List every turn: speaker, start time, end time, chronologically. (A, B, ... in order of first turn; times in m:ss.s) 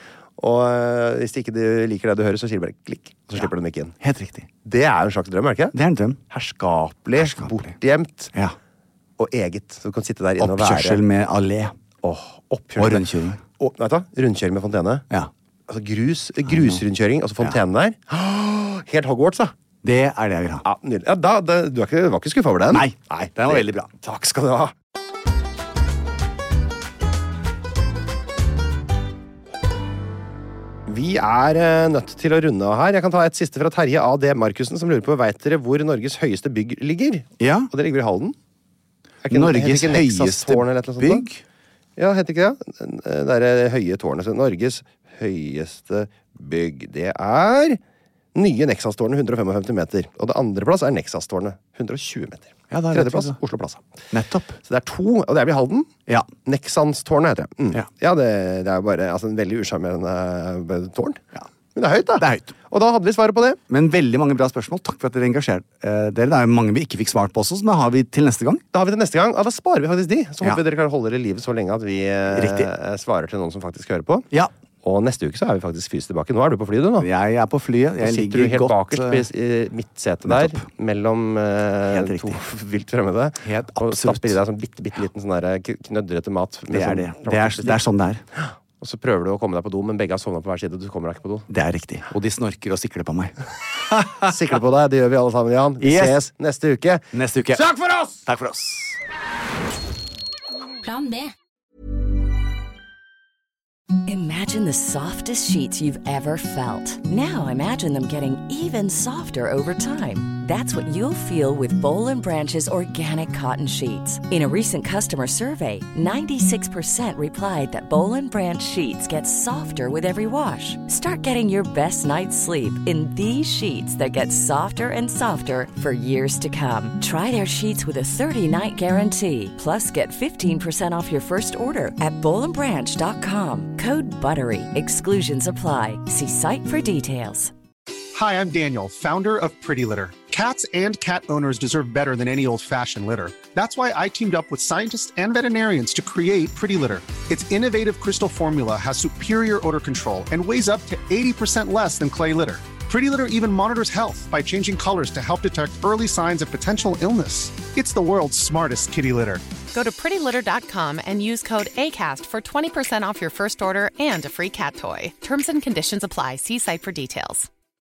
0:00.4-0:03.9 A
0:04.0-0:04.5 B
0:04.6-0:05.8 A
0:05.7-0:06.2 B
0:06.3-0:08.3 A
0:07.2-0:07.7 B
0:09.2-0:11.0 A
0:10.4-0:11.7 B
0:12.0-0:15.0 A
0:12.8-0:13.4 B
0:15.7-0:19.5 A
0:16.5-0:16.8 B
0:19.8-0:20.6 B
0:20.6-0:24.7 A
0:22.7-0:23.9 B
0:30.8-0:38.4 A
0:37.4-0:37.7 B
0:39.2-0:41.3 A
0:39.3-0:41.4 B
0:42.0-0:47.8 A
0:48.3-0:53.8 A
0:52.7-0:53.4 B
0:54.1-0:54.6 B
0:54.7-0:55.9 A
0:56.4-1:01.2 A
1:01.7-1:03.6 A
1:02.2-1:02.5 B
1:03.7-1:08.6 B
1:08.7-1:14.3 A
1:12.3-1:12.7 B
1:14.8-1:17.1 A
1:17.0-1:19.2 B
1:18.0-1:27.8 A
1:20.2-1:20.6 B
1:21.9-1:22.4 B
1:23.4-1:24.4 B
1:26.7-1:28.2 B
1:28.4-1:31.5 A
1:31.5-1:33.3 B
1:33.9-1:34.3 B
1:34.2-1:38.2 A
1:35.8-1:36.2 B
1:37.1-1:39.0 B
1:44.0-2:17.5 C
2:18.1-2:39.4 D
2:39.7-2:47.5 E